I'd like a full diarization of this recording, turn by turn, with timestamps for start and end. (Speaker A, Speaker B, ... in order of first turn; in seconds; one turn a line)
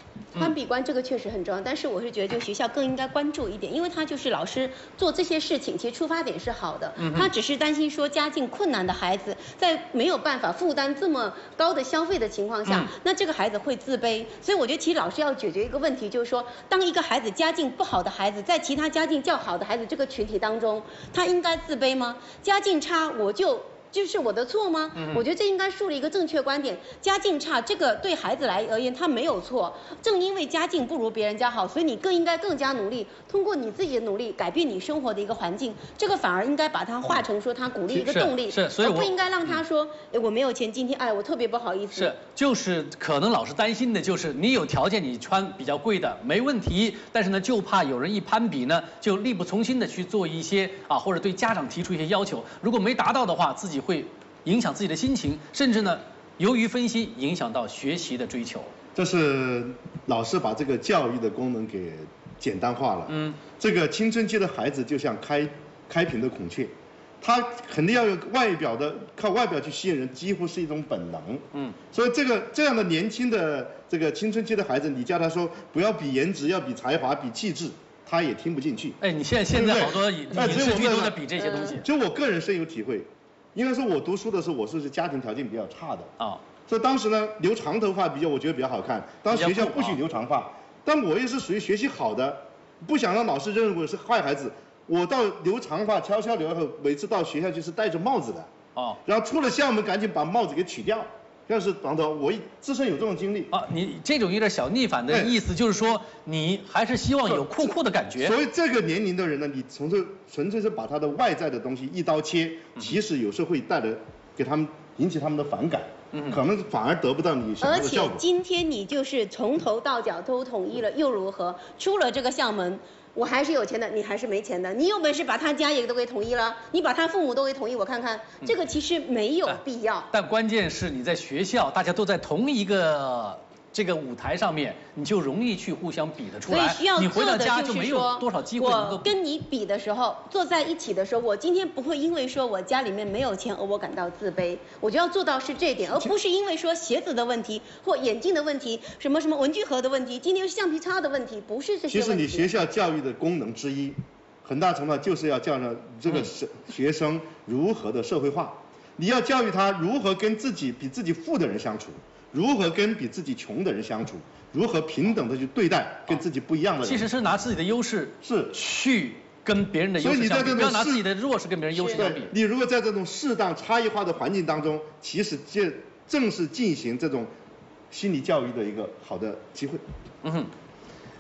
Speaker A: 0.3-42.1
Speaker B: 7.0-7.3
Speaker B: 12.7-12.9
Speaker B: 24.9-25.2
Speaker B: 37.9-39.1
Speaker B: 41.9-58.7
Speaker C: 58.9-79.0
Speaker B: 63.1-63.4
Speaker B: 79.0-81.9
Speaker C: 79.5-86.1
Speaker C: 86.7-98.5
Speaker B: 89.3-90.0
Speaker C: 99.0-103.5
Speaker B: 103.5-108.4
Speaker C: 105.1-105.3
Speaker C: 107.3-118.2
Speaker B: 116.1-116.4
Speaker A: 117.6-130.1
Speaker B: 129.4-139.1
Speaker A: 136.5-152.5
Speaker C: 151.9-167.1
Speaker B: 166.8-172.3
Speaker C: 168.2-168.5
Speaker C: 170.0-171.1
Speaker A: 171.7-172.0
Speaker C: 171.9-177.3
Speaker C: 177.9-179.8
Speaker B: 180.2-180.5